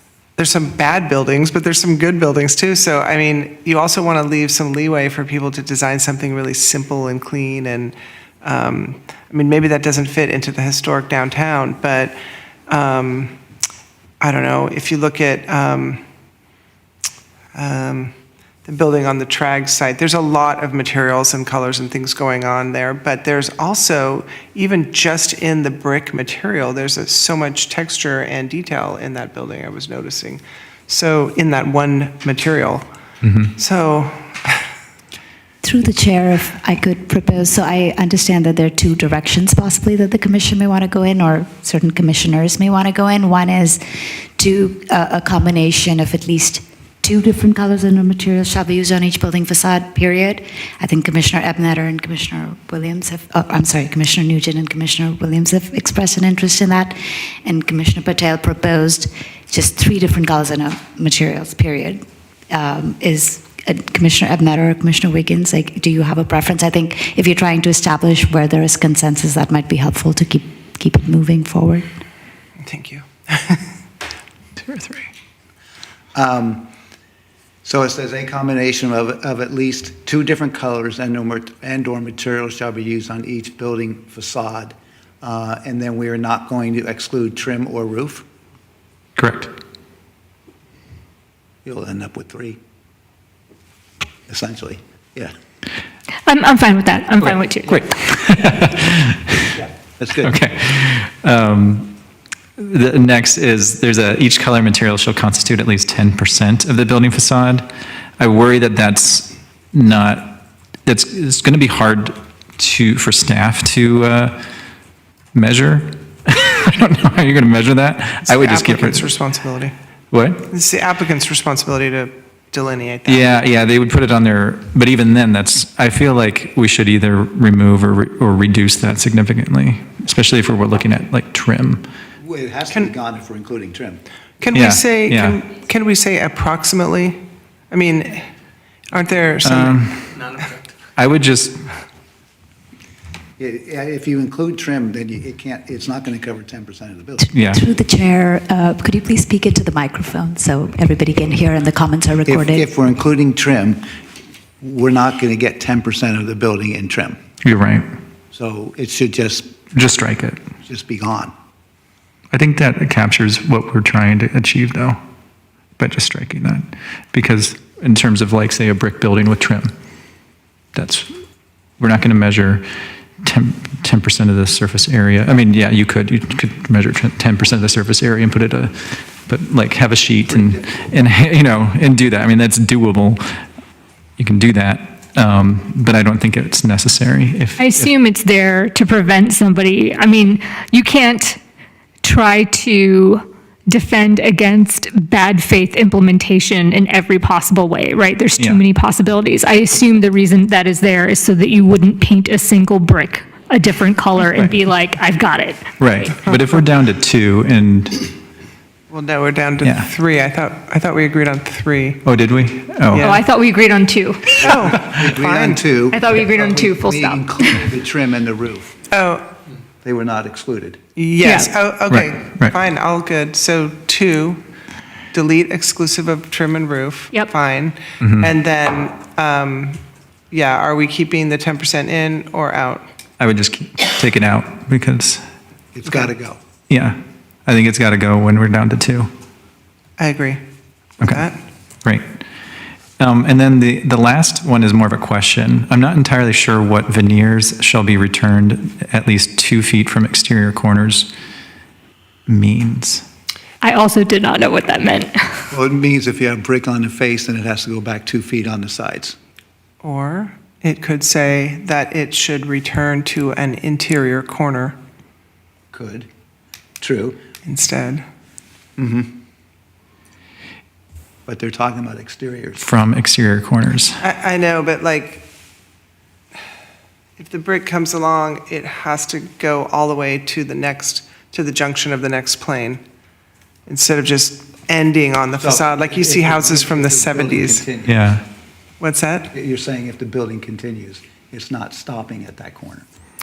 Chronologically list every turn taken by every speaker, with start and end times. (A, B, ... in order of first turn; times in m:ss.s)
0:00.4-0:12.2 A
0:12.7-0:13.4 A
0:14.2-0:16.0 A
0:17.6-0:18.1 A
0:18.6-0:32.9 A
0:33.2-0:33.5 B
0:33.6-0:34.6 A
0:35.6-0:43.8 C
0:44.4-1:11.9 C
1:12.6-1:13.7 A
1:14.6-1:15.1 B
1:16.2-1:16.7 D
1:17.6-1:28.2 D
1:29.2-1:29.5 B
1:31.6-1:32.6 D
1:34.3-1:35.3 D
1:36.3-1:37.8 E
1:37.7-1:39.5 B
1:39.5-1:40.4 D
1:40.2-1:41.9 B
1:42.6-1:47.7 B
1:48.2-1:54.4 B
1:55.3-1:59.1 B
1:58.3-1:59.8 A
2:00.1-2:00.5 B
2:00.5-2:03.4 A
2:03.1-2:11.9 B
2:12.2-2:14.0 D
2:14.4-2:18.3 A
2:14.5-2:15.4 B
2:18.9-2:19.8 A
2:19.4-2:20.3 B
2:21.0-2:21.6 B
2:23.4-2:27.2 D
2:27.2-2:32.7 C
2:27.3-2:27.6 B
2:32.3-2:33.9 D
2:34.6-2:37.2 D
2:37.4-2:37.9 B
2:38.3-2:39.6 D
2:39.7-2:40.4 B
2:40.7-2:41.3 D
2:42.3-2:45.0 B
2:45.8-2:49.7 B
2:50.8-2:51.1 B
2:51.8-2:52.6 B
2:53.2-3:03.2 B
3:00.3-3:00.9 D
3:04.2-3:07.9 B
3:07.6-3:11.4 E
3:12.0-3:26.3 E
3:25.8-3:28.1 B
3:28.9-3:32.0 A
3:29.6-3:29.9 B
3:32.0-3:33.2 B
3:32.9-3:33.2 A
3:32.9-3:34.5 E
3:34.4-3:35.6 A
3:34.4-3:38.7 D
3:35.9-3:37.2 E
3:38.9-3:39.3 A
3:39.8-3:40.8 D
3:41.0-3:44.4 A
3:41.2-3:41.5 E
3:41.9-3:42.6 B
3:45.1-3:52.9 A
3:48.0-3:48.3 B
3:53.2-3:55.2 B
3:55.7-3:56.4 D
3:56.7-3:59.1 B
4:00.0-4:00.4 A
4:01.0-4:01.3 B
4:01.0-4:01.4 A
4:03.0-4:11.1 B
4:12.3-4:13.0 B
4:13.6-4:15.1 E
4:15.5-4:19.2 D
4:19.8-4:24.8 A
4:25.7-4:26.1 D
4:26.8-4:27.2 D
4:27.4-4:28.0 A
4:28.8-4:29.2 D
4:31.3-4:32.7 D
4:32.6-4:34.0 B
4:34.0-4:35.2 A
4:37.2-4:42.8 A
4:43.7-4:47.7 A
4:45.4-4:48.1 D
4:47.9-4:48.2 B
4:48.8-4:49.3 A
4:49.3-4:52.8 D